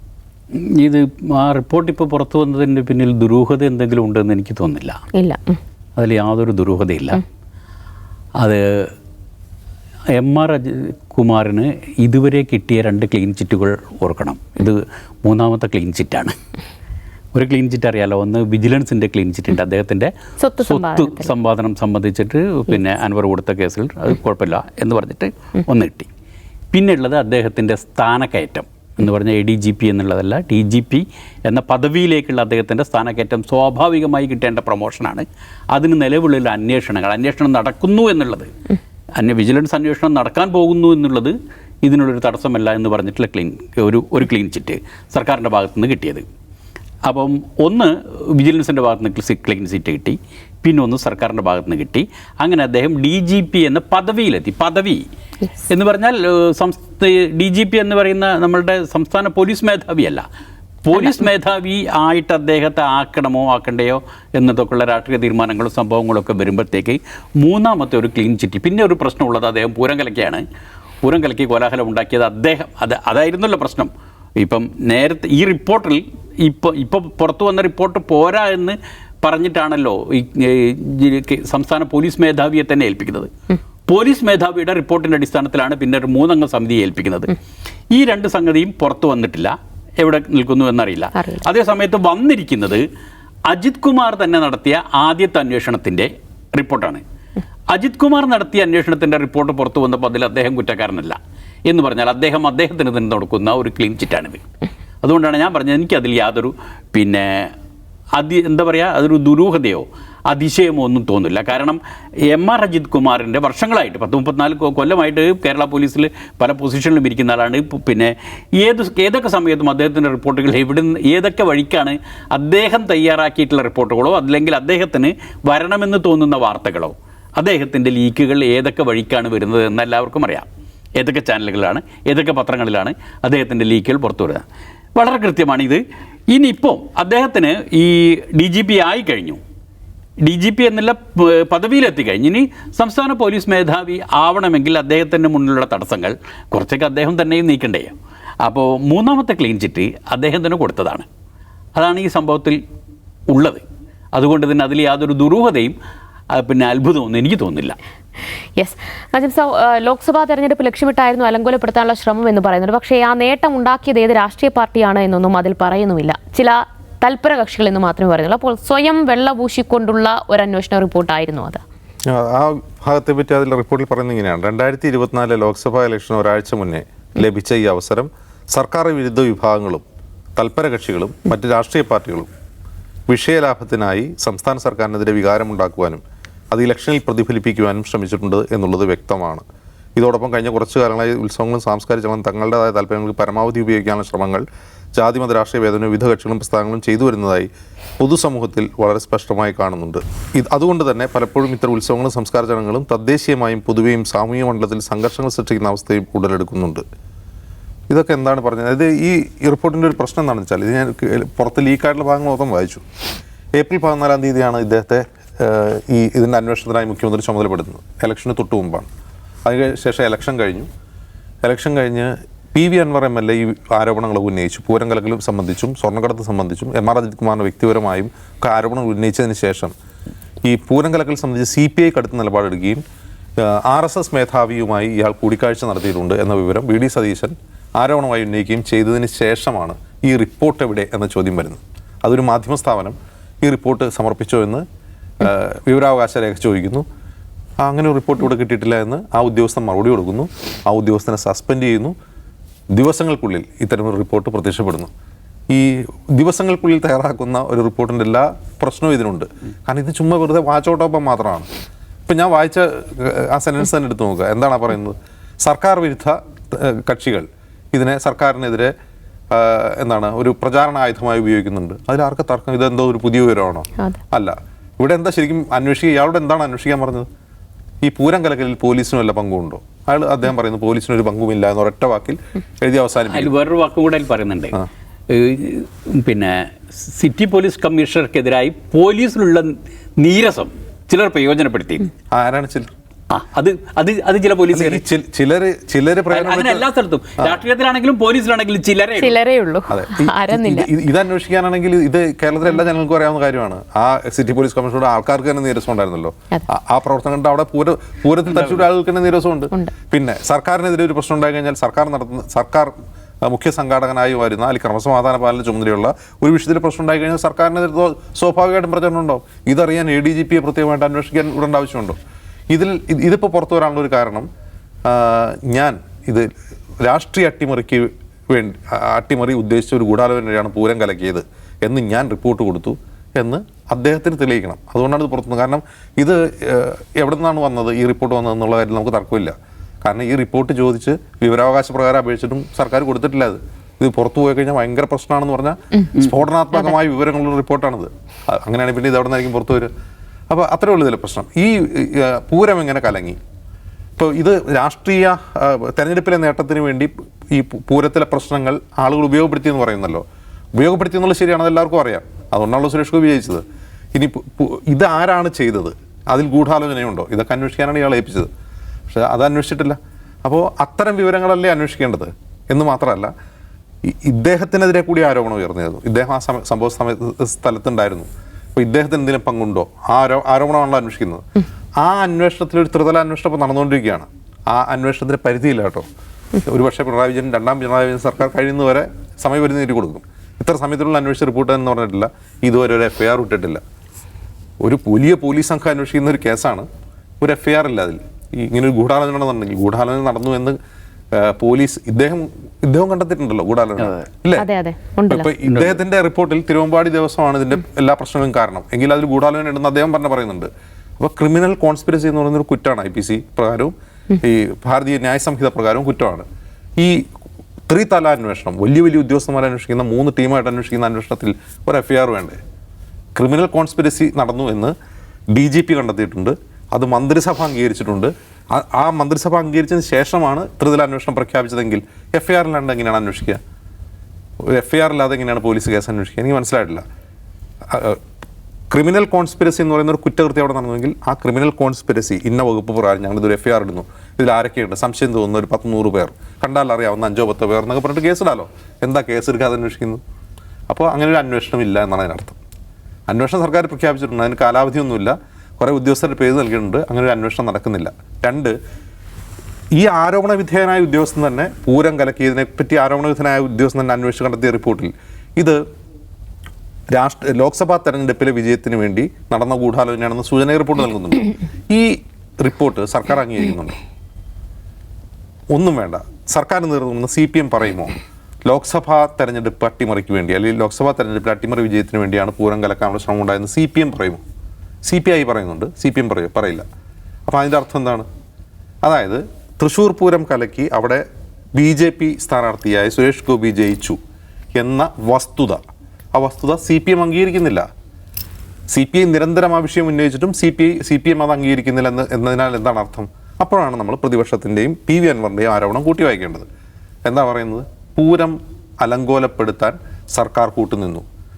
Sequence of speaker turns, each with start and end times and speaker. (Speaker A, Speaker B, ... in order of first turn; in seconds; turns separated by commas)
Speaker A: 0.6-5.0, Speaker B: 5.1-5.6, Speaker A: 6.0-7.2, Speaker A: 8.4-8.9, Speaker A: 10.1-16.4, Speaker A: 17.3-20.1, Speaker B: 20.4-21.3, Speaker A: 20.6-26.1, Speaker A: 26.7-38.5, Speaker A: 39.2-46.2, Speaker A: 47.1-55.0, Speaker A: 55.7-60.2, Speaker A: 60.8-70.4, Speaker A: 71.0-83.3, Speaker A: 83.9-87.4, Speaker A: 87.9-92.8, Speaker B: 91.2-91.4, Speaker A: 93.5-97.0, Speaker A: 97.7-104.4, Speaker A: 105.0-107.5, Speaker A: 108.2-134.4, Speaker A: 135.0-135.8, Speaker A: 136.3-139.4, Speaker A: 140.2-151.1, Speaker A: 151.8-152.6, Speaker A: 153.3-153.6, Speaker A: 154.1-155.8, Speaker A: 156.4-157.8, Speaker B: 158.6-171.6, Speaker C: 172.1-179.8, Speaker C: 180.4-182.3, Speaker C: 183.1-189.4, Speaker C: 190.0-194.4, Speaker C: 195.0-197.5, Speaker C: 198.0-206.8, Speaker C: 207.9-212.8, Speaker C: 213.6-218.9, Speaker C: 219.5-220.7, Speaker C: 221.4-229.7, Speaker C: 230.4-232.8, Speaker C: 233.4-244.7, Speaker C: 245.2-246.8, Speaker C: 247.6-251.9, Speaker C: 252.7-254.9, Speaker C: 255.5-261.5, Speaker C: 262.1-268.7, Speaker C: 269.3-277.1, Speaker C: 277.8-283.3, Speaker A: 283.1-291.9, Speaker C: 292.1-292.7, Speaker A: 293.1-294.8, Speaker C: 294.5-296.7, Speaker A: 296.1-299.2, Speaker B: 299.0-300.7, Speaker C: 299.7-312.7, Speaker A: 308.3-308.7, Speaker C: 313.2-322.0, Speaker C: 322.5-324.3, Speaker C: 324.9-326.3, Speaker C: 326.8-349.7, Speaker C: 350.3-353.2, Speaker C: 354.0-360.0, Speaker C: 360.6-363.4, Speaker C: 363.9-368.3, Speaker C: 368.9-373.1, Speaker C: 373.8-381.3, Speaker C: 381.8-385.9, Speaker C: 386.4-393.6, Speaker C: 394.6-396.7, Speaker C: 397.2-400.6, Speaker C: 401.1-404.5, Speaker A: 403.8-404.1, Speaker B: 404.4-405.3, Speaker C: 405.1-416.3, Speaker A: 405.4-405.8, Speaker C: 416.8-417.1, Speaker C: 417.7-422.4, Speaker C: 423.2-424.7, Speaker C: 425.3-433.4, Speaker C: 434.4-436.8, Speaker C: 437.7-438.0, Speaker C: 438.7-450.0, Speaker C: 450.7-452.4, Speaker C: 453.1-458.6, Speaker C: 459.8-465.6, Speaker C: 466.9-473.8, Speaker C: 475.5-484.2, Speaker C: 484.9-486.6, Speaker C: 487.3-488.1, Speaker C: 488.8-491.1, Speaker C: 491.6-494.0, Speaker C: 494.6-495.6, Speaker C: 496.1-497.7, Speaker C: 498.7-506.5, Speaker C: 507.1-511.1